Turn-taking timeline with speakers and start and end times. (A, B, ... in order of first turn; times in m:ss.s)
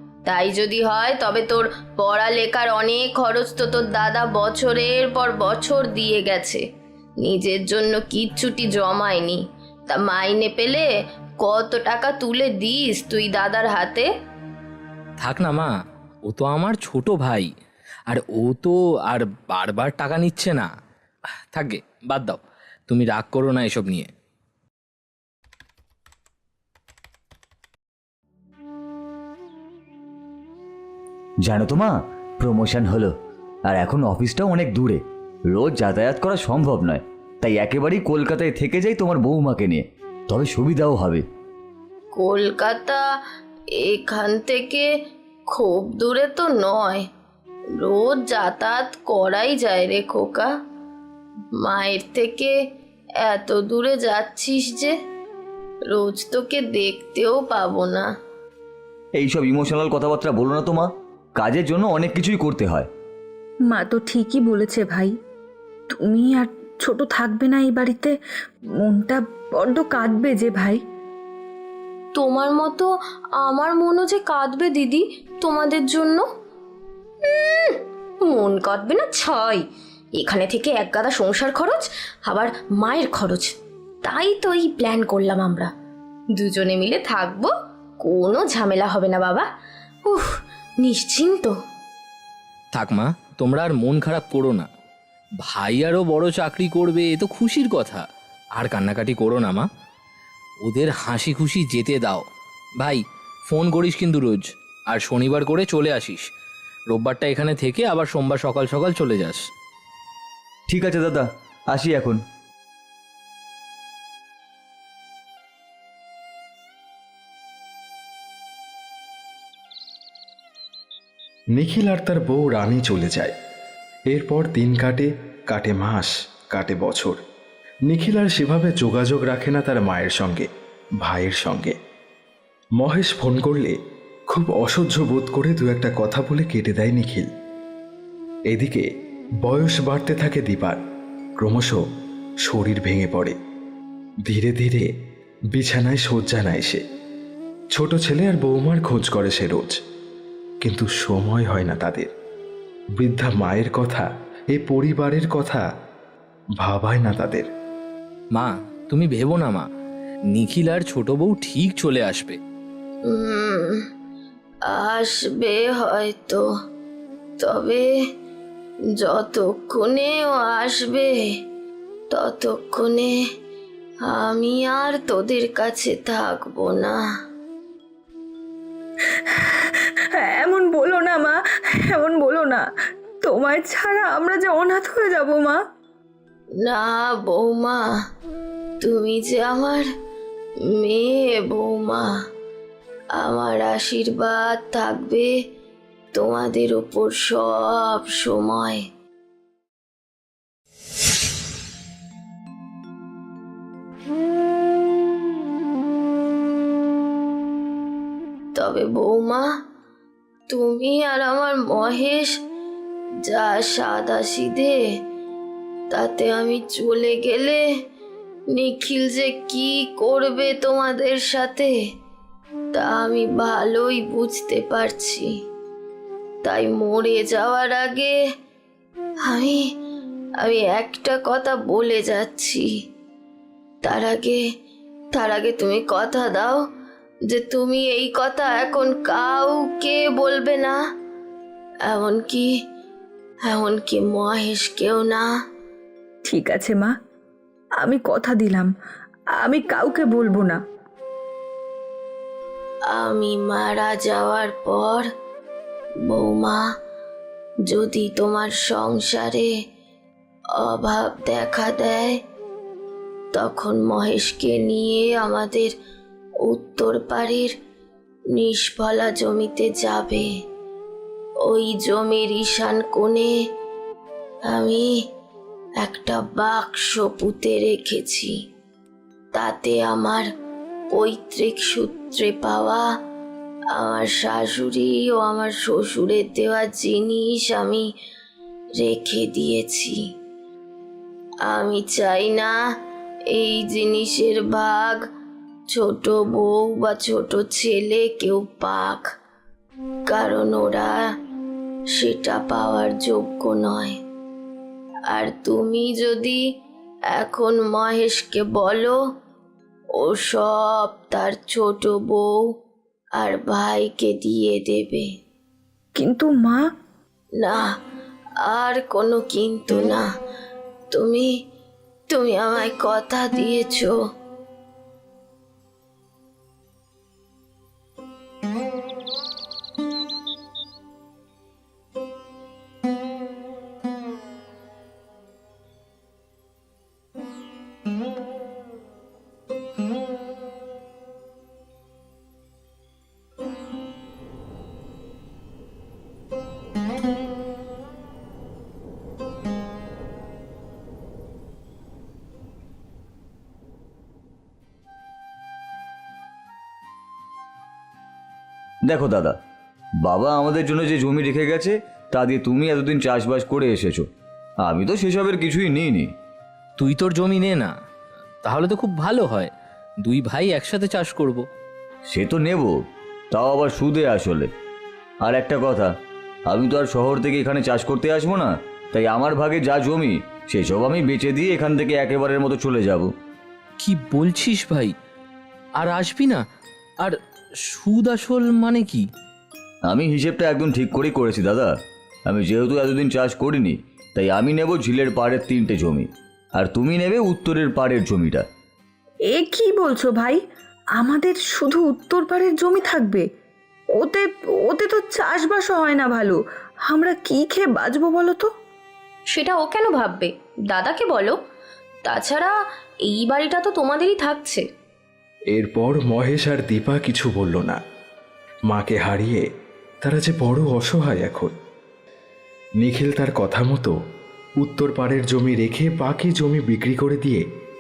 0:00.3-0:06.6 A
0:07.2-0:10.9 A
0:11.4-0:14.1 A
0:15.2-0:15.7 B
0:16.3-0:17.5 B
0:18.1-0:20.7 B
0:21.5-0:24.1 B
0:31.5-0:33.1 C
0:33.7-0:41.3 C
0:42.1-0:43.0 A
0:43.8-0:44.9 A
0:45.5-0:47.1 A
0:47.8-0:50.5 A
0:51.6-0:52.6 A
0:53.2-0:54.9 A
0:55.9-0:58.1 A
0:59.2-1:02.9 C
1:03.7-1:05.1 D
1:05.9-1:08.2 D
1:08.8-1:10.8 D
1:12.2-1:16.2 A
1:17.3-1:19.6 A
1:20.2-1:23.5 A
1:24.0-1:25.7 A
1:26.4-1:27.5 A
1:28.0-1:29.5 A
1:30.8-1:31.5 A
1:32.7-1:34.7 B
1:35.4-1:38.0 B
1:38.6-1:39.7 B
1:40.6-1:42.3 B
1:42.8-1:46.3 B
1:46.9-1:49.5 B
1:50.7-1:52.2 C
2:01.6-2:03.3 E
2:04.1-2:07.2 E
2:07.9-2:10.5 E
2:11.0-2:11.8 E
2:12.8-2:13.8 E
2:14.3-2:17.3 E
2:18.5-2:18.9 E
2:19.4-2:20.8 E
2:21.4-2:21.8 E
2:22.5-2:23.4 E
2:24.3-2:24.9 E
2:25.5-2:26.8 E
2:27.7-2:29.8 E
2:30.6-2:32.1 E
2:33.0-2:35.6 E
2:36.6-2:37.5 E
2:38.3-2:39.7 B
2:40.3-2:42.4 B
2:43.1-2:43.8 A
2:44.7-2:46.5 A
2:47.4-2:47.9 A
2:49.0-2:51.1 A
2:52.1-2:53.2 A
2:54.1-2:57.0 A
3:00.2-3:02.6 D
3:03.2-3:05.6 D
3:06.6-3:07.8 A
3:08.8-3:09.9 A
3:10.7-3:12.1 A
3:13.2-3:15.3 A
3:16.2-3:18.8 A
3:28.6-3:29.5 A
3:30.5-3:32.4 A
3:33.3-3:34.8 A
3:35.9-3:37.6 A
3:38.5-3:41.7 A
3:42.7-3:45.3 A
3:46.4-3:48.1 A
3:49.3-3:49.6 A
3:50.4-3:52.7 A
3:53.8-3:54.4 A
3:55.1-3:56.6 A
3:57.3-4:00.8 A
4:01.9-4:02.5 A
4:03.5-4:05.3 A
4:06.3-4:06.9 D
4:07.8-4:08.7 D
4:09.4-4:10.6 D
4:12.9-4:15.1 A
4:16.1-4:16.6 A
4:17.7-4:19.5 A
4:20.6-4:22.2 A
4:23.3-4:25.7 A
4:26.5-4:27.5 A
4:28.4-4:30.3 A
4:31.5-4:33.3 A
4:34.5-4:34.9 A
4:35.8-4:38.3 A
4:39.3-4:40.3 A
4:40.9-4:42.8 A
4:43.7-4:47.9 A
4:48.8-4:50.0 A
4:51.4-4:52.5 A
4:53.3-4:55.0 A
4:55.7-4:59.0 A
5:00.1-5:01.0 A
5:02.0-5:04.0 A
5:05.1-5:06.4 A
5:07.1-5:09.0 A
5:10.0-5:12.4 A
5:13.2-5:15.1 A
5:16.0-5:16.6 D
5:17.4-5:17.7 A
5:18.4-5:20.0 A
5:20.9-5:21.3 A
5:22.1-5:24.0 A
5:58.9-5:59.4 C
6:00.0-6:04.1 C
6:04.6-6:06.1 C
6:06.8-6:07.7 B
6:08.4-6:09.5 B
6:10.0-6:11.5 B
6:12.1-6:12.7 C
6:13.3-6:14.5 C
6:15.2-6:15.9 C
6:16.5-6:23.1 C
6:23.8-6:25.0 B
6:25.8-6:26.4 B
6:27.7-6:29.1 B
6:29.9-6:31.7 C
6:32.3-6:38.4 C
6:39.3-6:40.4 D
6:41.0-6:43.2 D
6:44.0-6:48.5 D
6:49.3-6:51.4 A
6:52.1-6:52.5 A
6:53.1-6:54.6 A
6:55.5-6:57.8 E
6:58.7-6:59.4 E
7:00.0-7:01.5 E
7:02.8-7:03.9 E
7:04.6-7:07.4 E